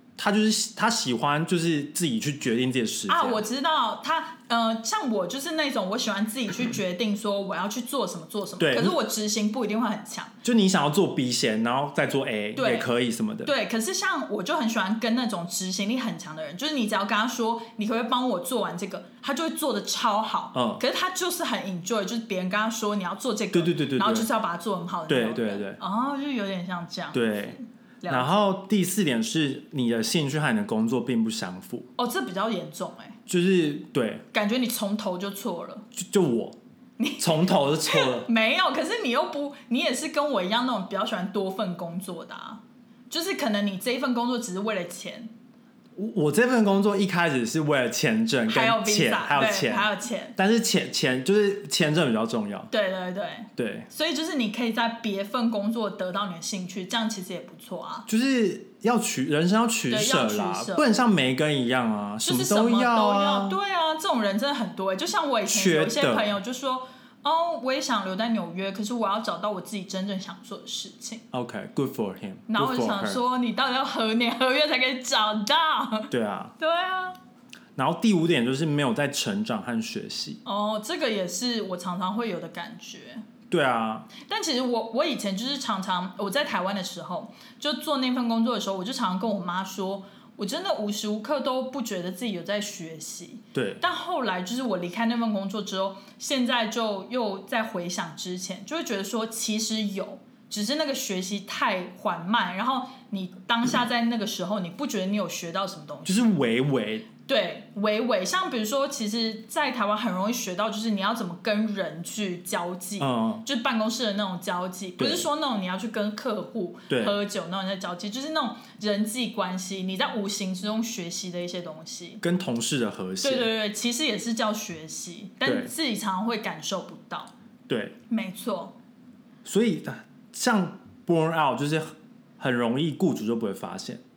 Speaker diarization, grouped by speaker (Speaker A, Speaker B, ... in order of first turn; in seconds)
Speaker A: 0.2-3.4, 8.6-9.0, 10.4-13.5, 20.5-20.8, 23.5-24.3, 25.1-25.8, 27.1-27.6, 28.1-31.9, 33.3-34.2, 36.0-36.6, 37.2-38.3, 46.0-52.7, 53.6-53.9, 58.1-63.6, 65.5-66.3, 71.3-73.2, 76.1-76.5, 77.8-80.4, 83.5-84.1, 93.5-93.8, 106.1-107.1, 113.0-113.4, 115.0-115.3, 116.9-117.2, 122.2-123.5, 125.4-125.7, 127.7-128.0, 129.4-131.9, 132.4-134.0
Speaker B: 3.1-10.3, 12.6-12.9, 13.4-28.5, 32.0-33.2, 34.3-35.9, 37.0-45.3, 48.5-50.4, 52.7-58.1, 59.9-60.9, 62.2-71.2, 72.5-77.2, 80.5-83.2, 84.2-106.4, 107.3-122.2, 123.2-127.3, 128.1-128.7